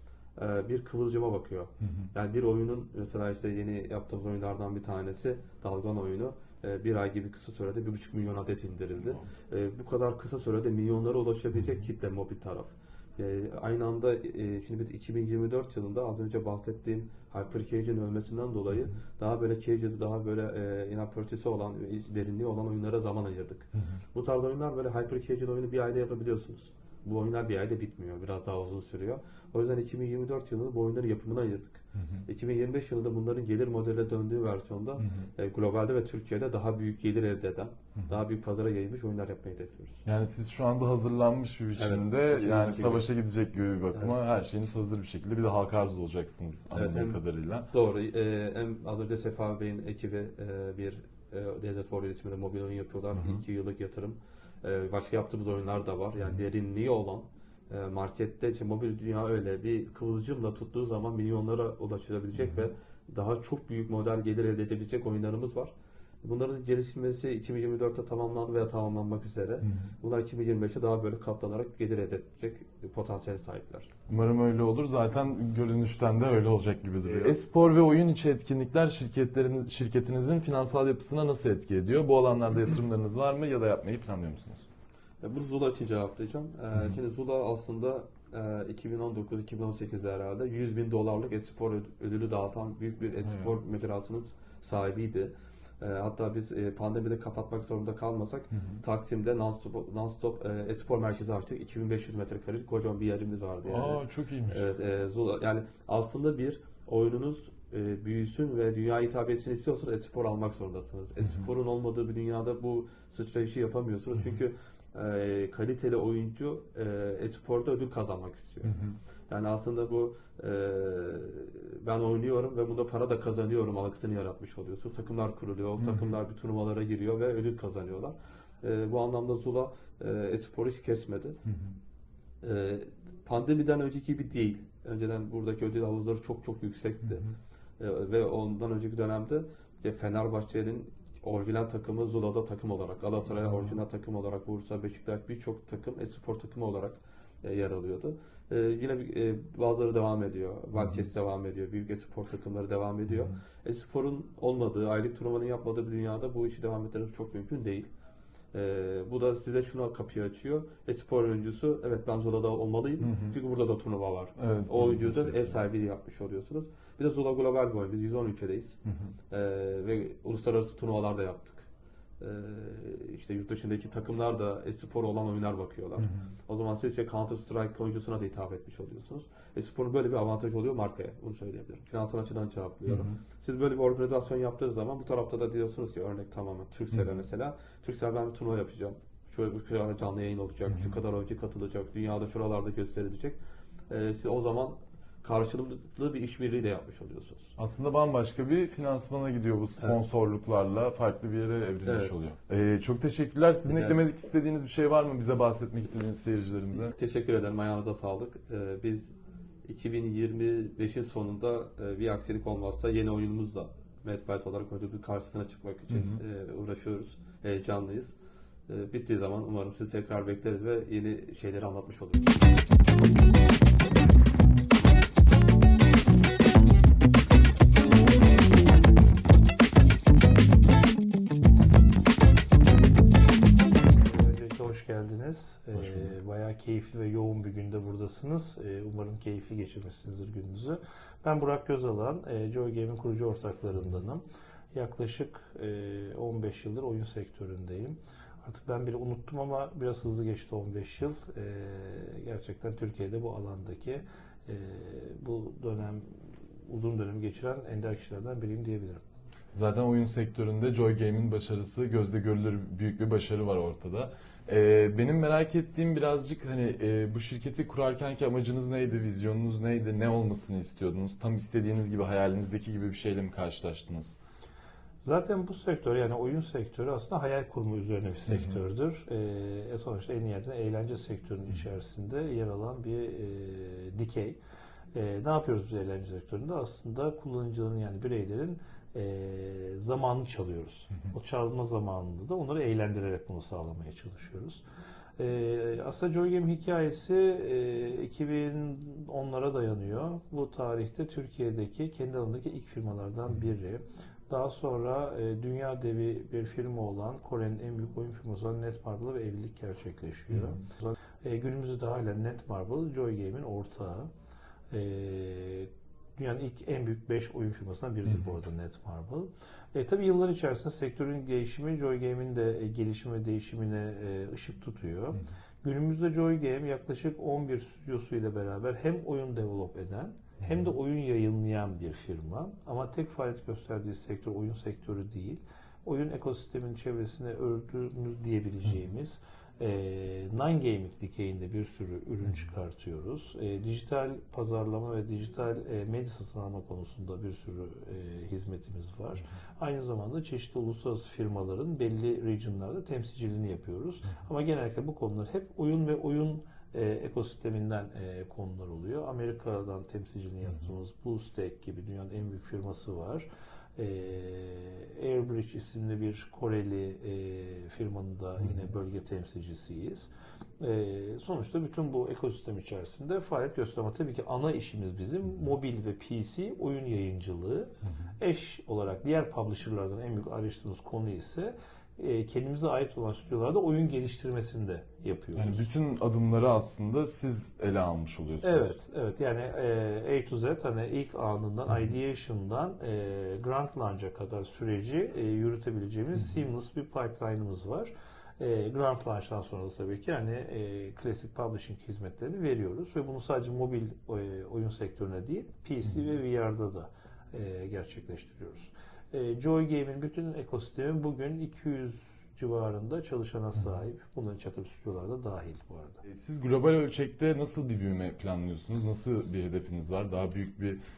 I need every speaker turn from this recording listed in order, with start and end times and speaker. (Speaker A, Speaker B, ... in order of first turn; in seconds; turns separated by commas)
Speaker A: 0.3-40.0, Speaker B: 31.9-32.2, Speaker B: 35.0-35.3, Speaker B: 40.0-47.7, Speaker A: 41.8-43.1, Speaker A: 43.9-44.2, Speaker A: 46.7-47.2, Speaker A: 47.7-73.9, Speaker B: 53.2-53.4, Speaker B: 69.6-69.9, Speaker B: 74.1-84.7, Speaker A: 77.0-77.4, Speaker A: 85.2-118.8, Speaker B: 98.5-98.8, Speaker B: 103.7-104.7, Speaker B: 118.6-119.0, Speaker A: 119.3-131.4, Speaker B: 125.8-126.1, Speaker B: 131.5-131.7, Speaker A: 132.4-137.2, Speaker B: 137.1-137.3, Speaker A: 137.8-157.9, Speaker B: 143.4-143.8, Speaker B: 150.7-151.1, Speaker A: 158.5-168.8, Speaker B: 163.0-163.3, Speaker B: 164.4-165.6, Speaker B: 168.9-169.1, Speaker A: 169.3-171.7, Speaker A: 172.2-193.4, Speaker B: 176.0-176.3, Speaker B: 182.9-183.2, Speaker B: 190.7-190.9, Speaker A: 193.9-197.6, Speaker B: 197.6-206.9, Speaker A: 201.8-202.1, Speaker A: 203.7-204.0, Speaker A: 206.8-218.2, Speaker B: 215.9-216.2, Speaker A: 218.7-222.6, Speaker C: 233.9-244.2, Speaker B: 235.8-236.1, Speaker C: 244.7-259.0, Speaker B: 259.5-274.2, Speaker C: 275.0-284.4, Speaker B: 278.3-278.6, Speaker C: 284.9-294.6, Speaker C: 295.2-314.1, Speaker B: 310.3-310.6, Speaker C: 314.7-385.7, Speaker B: 330.4-330.7, Speaker B: 368.4-368.7, Speaker B: 377.8-378.1, Speaker B: 385.3-388.8, Speaker C: 388.4-416.0, Speaker B: 391.7-391.9, Speaker B: 416.0-420.8